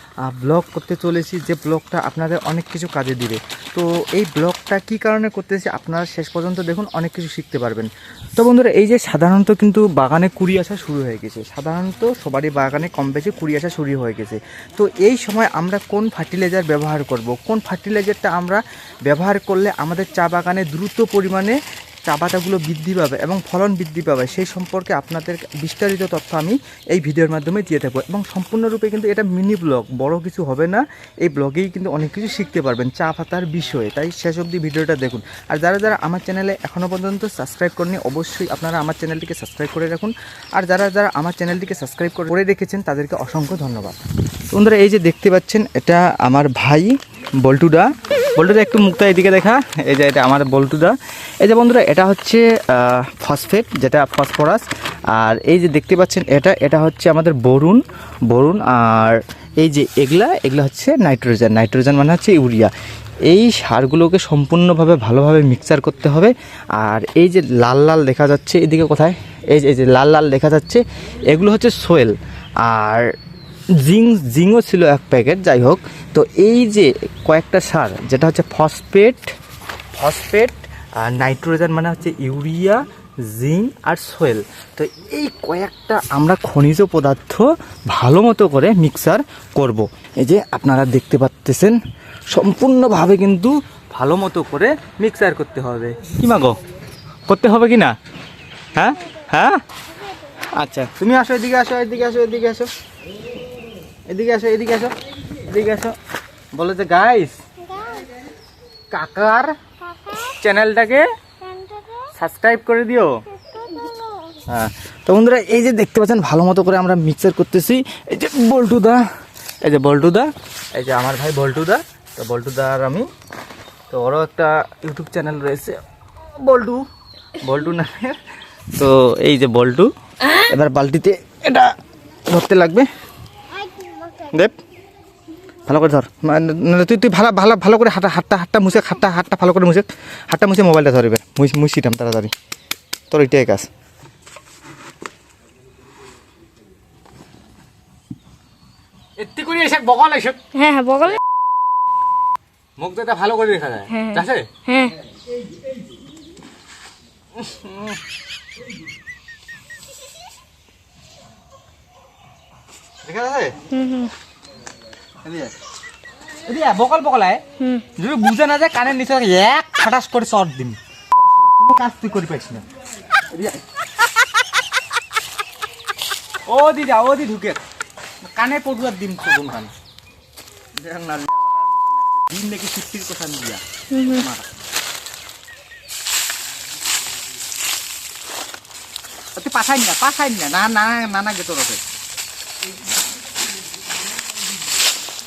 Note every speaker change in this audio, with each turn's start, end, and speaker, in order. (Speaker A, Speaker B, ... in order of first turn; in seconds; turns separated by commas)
Speaker A: 0.3-44.0, Speaker A: 44.5-62.7, Speaker A: 63.2-73.1, Speaker A: 73.8-79.3, Speaker A: 79.9-91.8, Speaker A: 92.3-96.6, Speaker A: 97.3-97.9, Speaker A: 98.7-99.6, Speaker A: 100.5-102.7, Speaker A: 104.1-106.0, Speaker A: 106.5-107.4, Speaker A: 108.9-109.6, Speaker A: 110.1-111.1, Speaker A: 112.0-113.2, Speaker B: 113.6-114.0, Speaker A: 114.5-119.0, Speaker A: 119.6-123.1, Speaker A: 123.9-125.8, Speaker A: 126.3-126.8, Speaker A: 127.4-128.2, Speaker A: 128.7-131.8, Speaker A: 132.3-132.9, Speaker A: 134.3-134.6, Speaker A: 135.7-142.3, Speaker A: 143.1-143.7, Speaker A: 149.2-150.5, Speaker B: 150.5-151.2, Speaker A: 152.8-154.6, Speaker B: 153.9-154.9, Speaker A: 157.3-158.0, Speaker A: 163.0-163.7, Speaker B: 163.7-164.1, Speaker A: 165.2-165.6, Speaker A: 166.4-172.7, Speaker A: 173.3-173.6, Speaker A: 176.5-177.6, Speaker A: 178.2-179.7, Speaker A: 180.8-184.5, Speaker A: 189.3-191.8